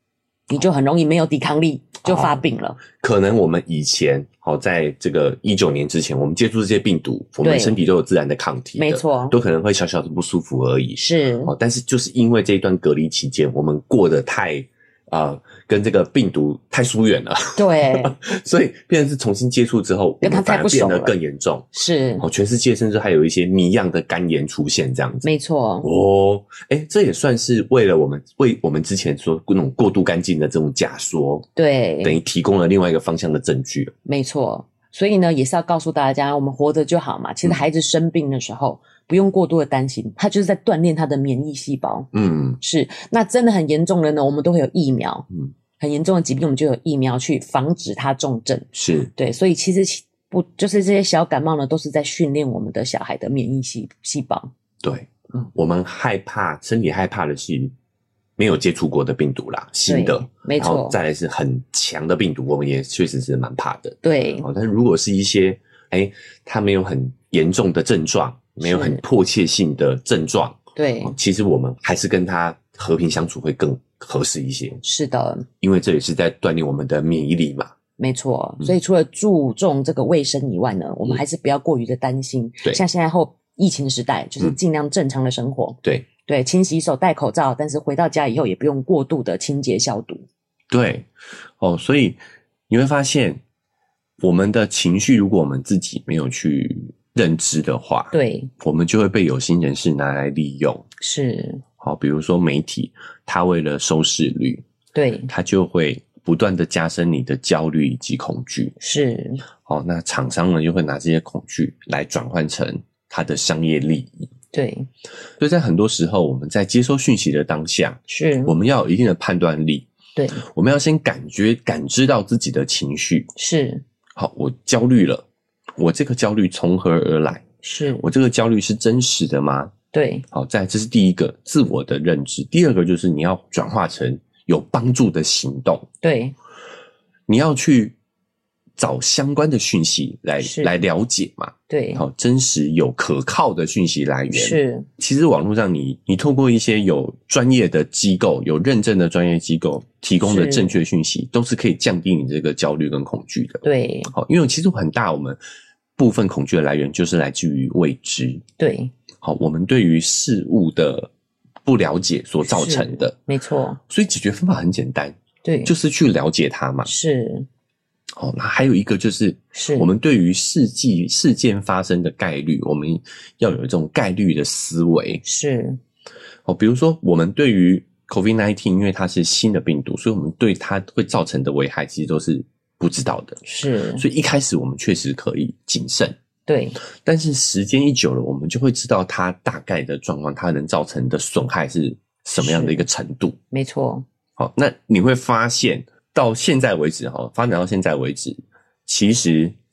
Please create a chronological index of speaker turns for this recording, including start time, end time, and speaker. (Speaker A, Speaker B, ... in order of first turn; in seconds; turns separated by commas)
Speaker A: 0.5-2.8, Speaker B: 2.1-2.4, Speaker B: 2.9-21.7, Speaker A: 7.4-7.8, Speaker A: 8.8-9.4, Speaker A: 11.0-11.5, Speaker A: 17.6-18.2, Speaker A: 20.2-21.1, Speaker A: 21.7-22.3, Speaker B: 22.2-25.3, Speaker A: 25.2-25.9, Speaker B: 25.8-31.5, Speaker A: 31.6-32.2, Speaker B: 32.0-33.9, Speaker A: 34.0-45.3, Speaker B: 42.1-42.6, Speaker A: 45.8-54.5, Speaker B: 48.8-49.1, Speaker B: 54.8-57.7, Speaker B: 58.4-74.8, Speaker A: 59.9-61.0, Speaker A: 64.0-64.5, Speaker A: 68.6-69.0, Speaker A: 70.8-71.1, Speaker A: 74.8-75.5, Speaker B: 75.6-77.7, Speaker A: 78.0-90.3, Speaker B: 90.7-93.4, Speaker B: 94.2-100.9, Speaker A: 98.1-98.5, Speaker A: 101.0-101.6, Speaker B: 101.8-104.6, Speaker A: 104.9-105.3, Speaker B: 105.3-108.8, Speaker A: 108.8-109.4, Speaker B: 109.7-114.3, Speaker A: 114.5-114.9, Speaker B: 115.4-119.9, Speaker A: 118.1-118.5, Speaker A: 120.2-120.4, Speaker B: 120.4-123.3, Speaker A: 123.4-123.8, Speaker B: 124.2-127.4, Speaker A: 127.6-128.1, Speaker B: 128.0-129.7, Speaker A: 129.9-130.3, Speaker B: 130.3-135.9, Speaker A: 136.0-136.3, Speaker B: 137.3-138.0, Speaker B: 138.8-155.4, Speaker A: 140.4-140.7, Speaker A: 141.7-142.0, Speaker A: 144.3-144.9, Speaker A: 150.2-150.8, Speaker A: 153.6-154.1, Speaker B: 156.0-158.4, Speaker A: 158.6-158.9, Speaker B: 159.2-161.1, Speaker B: 161.7-163.2, Speaker A: 162.4-163.8, Speaker B: 163.9-166.9, Speaker A: 165.4-165.7, Speaker A: 166.8-167.5, Speaker B: 168.1-175.2, Speaker A: 169.5-169.9, Speaker A: 175.2-175.8, Speaker B: 176.5-183.4, Speaker A: 183.4-184.0, Speaker B: 184.0-186.2, Speaker A: 186.5-186.8, Speaker B: 187.0-193.4, Speaker A: 192.4-192.8, Speaker A: 193.5-194.1, Speaker B: 194.4-199.6